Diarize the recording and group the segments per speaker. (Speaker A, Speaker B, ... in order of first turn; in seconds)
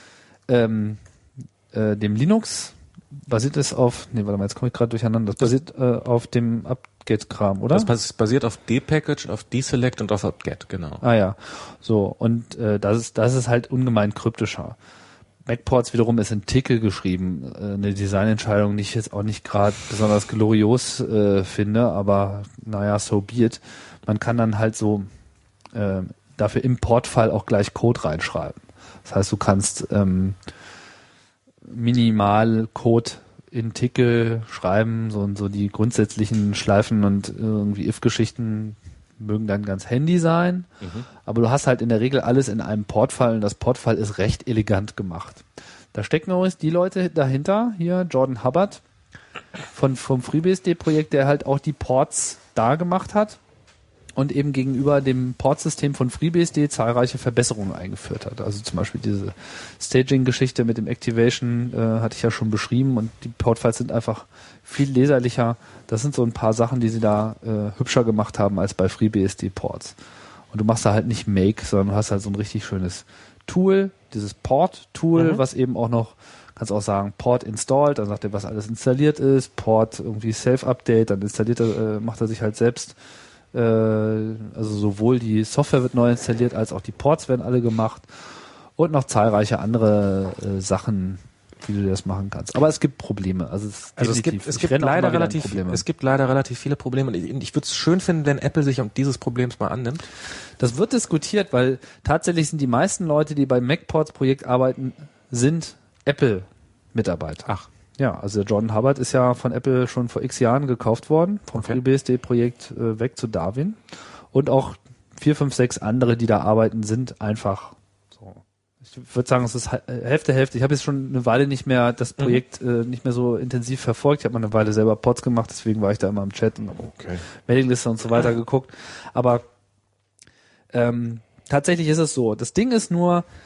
Speaker A: 0.5-1.0, 1.7-2.7, 3.3-7.9, 11.0-14.8, 15.5-25.1, 25.7-30.4, 31.7-40.7, 41.2-48.8, 49.7-53.4, 54.2-70.0, 70.5-83.0, 83.5-88.1, 88.8-95.8, 100.6-113.8, 114.3-129.4, 130.7-133.2
Speaker B: 7.7-11.0, 40.8-41.1, 75.2-75.4, 94.0-100.1, 127.0-127.2